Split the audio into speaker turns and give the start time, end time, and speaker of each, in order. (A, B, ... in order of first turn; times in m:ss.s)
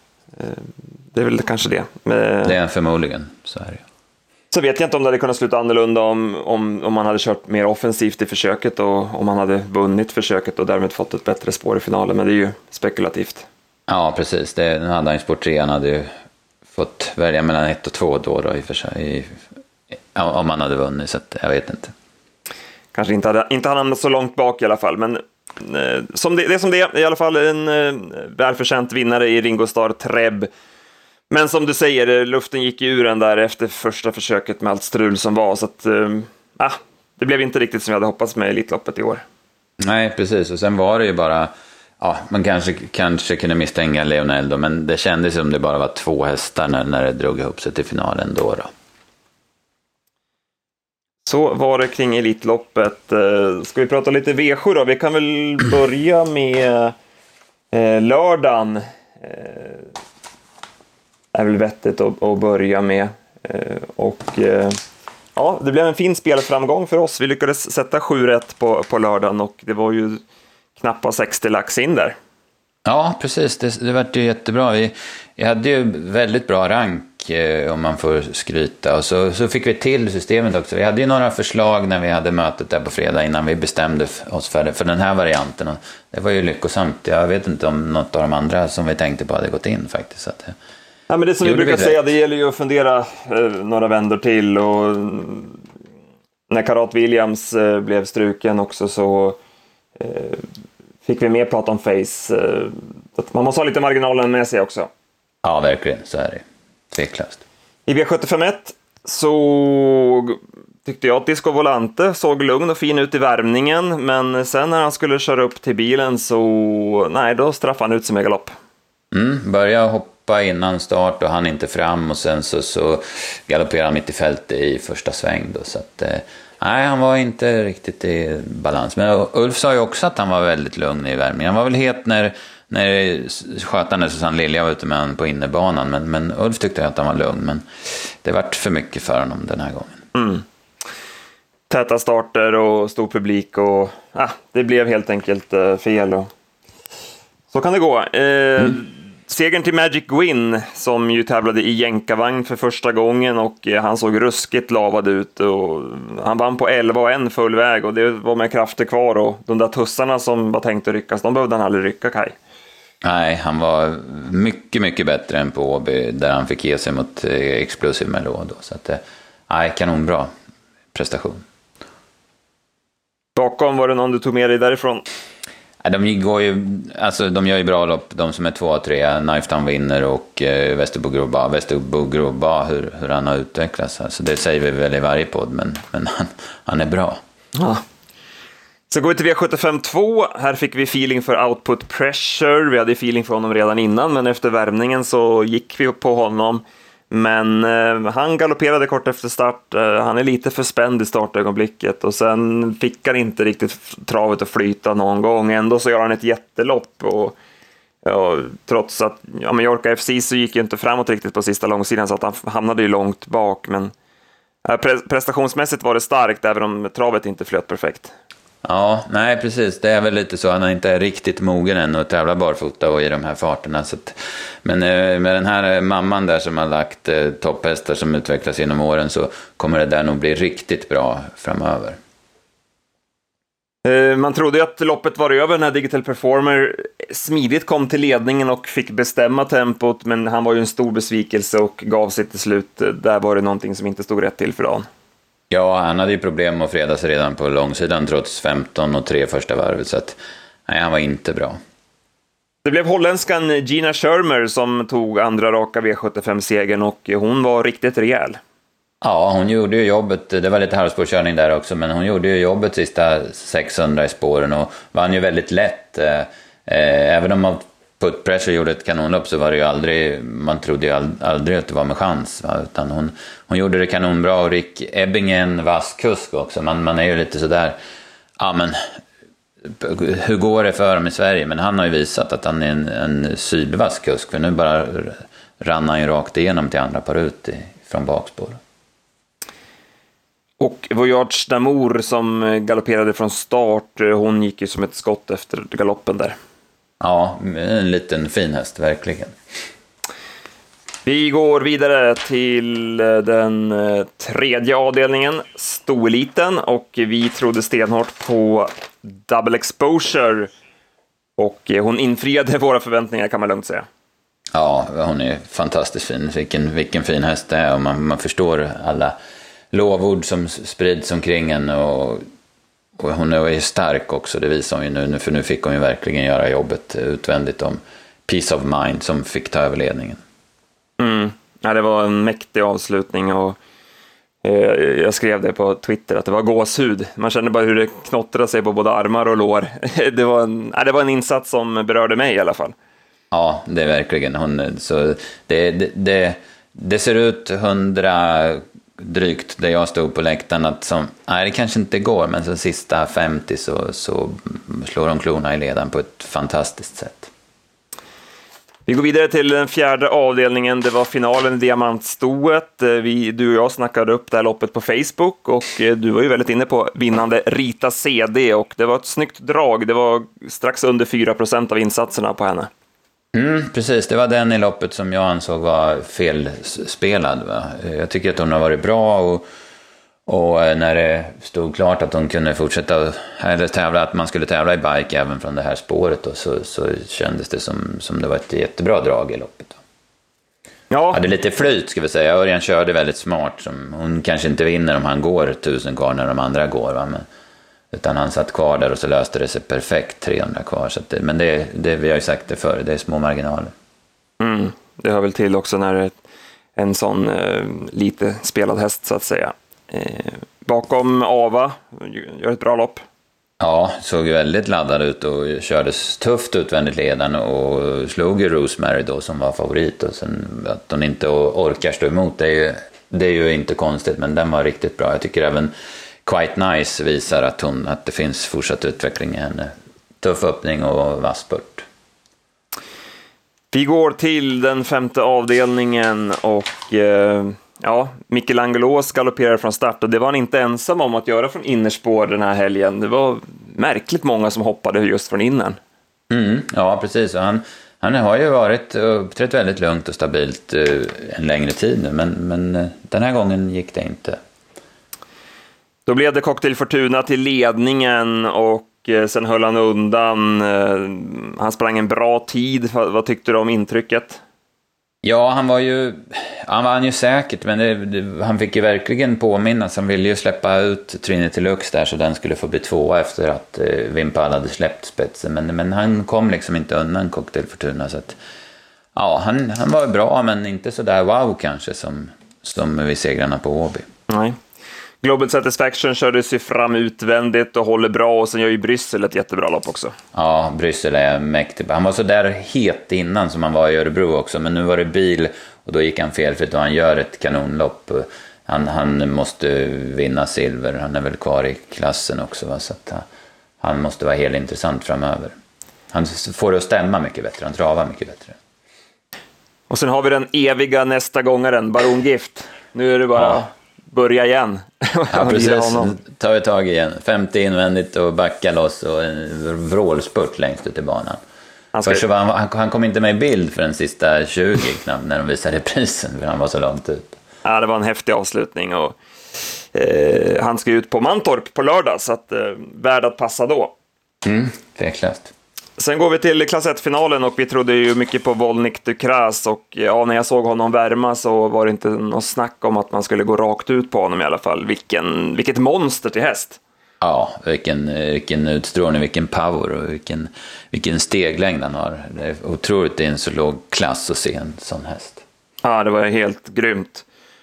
0:00.4-0:02.6 A
0:02.4-0:03.8 B
0:04.5-0:13.5 A
0:13.9-0:16.1 B
0:16.7-0:19.4 B
0:20.1-0:21.9 B
0:22.9-0:30.5 A
0:31.3-0:39.2 A
0:39.8-0:48.7 B
0:51.2-0:57.0 A
0:57.7-0:59.9 A
1:01.3-1:04.8 A
1:05.4-1:10.2 A
1:10.8-1:12.2 A
1:12.8-1:30.6 B
1:31.1-1:35.6 A
1:31.4-1:32.0 B
1:36.5-1:39.4 A
1:40.0-1:40.5 A
1:41.1-1:44.9 A
1:45.4-1:47.4 B
1:47.9-1:58.5 A
1:59.1-2:20.0 B
2:20.1-2:20.4 A
2:21.7-2:26.3 A
2:27.5-2:42.4 A
2:43.0-2:50.3 B
2:50.9-2:51.4 B
2:53.4-2:55.0 A
2:55.8-3:07.2 B
3:07.6-3:07.8 A
3:08.9-3:27.4 A
3:28.0-3:33.9 A
3:34.6-3:38.1 A
3:38.6-3:52.0 B
3:53.8-4:04.9 A
4:05.5-4:11.6 B
4:12.6-4:18.4 A
4:19.0-4:37.8 B
4:38.4-4:38.8 B
4:39.7-4:48.6 B
4:50.6-4:56.4 A
4:57.0-4:59.3 B
5:01.1-5:10.5 A
5:11.4-5:13.9 A
5:14.5-5:19.2 B
5:19.7-5:22.2 B
5:23.0-5:30.2 B
5:31.0-5:33.6 A
5:34.4-5:42.8 A
5:43.3-5:57.3 B
5:58.9-6:12.7 A
6:13.3-6:19.4 B
6:20.3-6:29.8 B
6:30.9-6:31.2 A
6:31.1-6:37.3 B
6:37.9-6:43.7 B
6:44.4-6:46.2 A
6:46.8-6:53.0 A
6:53.6-7:05.7 B
7:06.2-7:11.8 B
7:13.7-7:25.8 A
7:26.3-7:34.4 B
7:36.1-7:44.4 A
7:45.2-7:58.4 B
7:59.2-8:04.1 B
8:04.3-8:04.6 A
8:05.2-8:10.1 A
8:10.3-8:23.2 B
8:23.8-8:25.6 B
8:26.1-8:28.6 B
8:29.9-8:36.1 A
8:35.3-8:41.4 B
8:41.9-8:42.2 A
8:42.1-8:47.4 B
8:47.6-8:49.2 A
8:49.9-8:54.0 A
8:54.4-8:55.5 B
8:56.0-9:06.8 A
9:07.2-9:15.4 B
9:15.8-9:17.2 A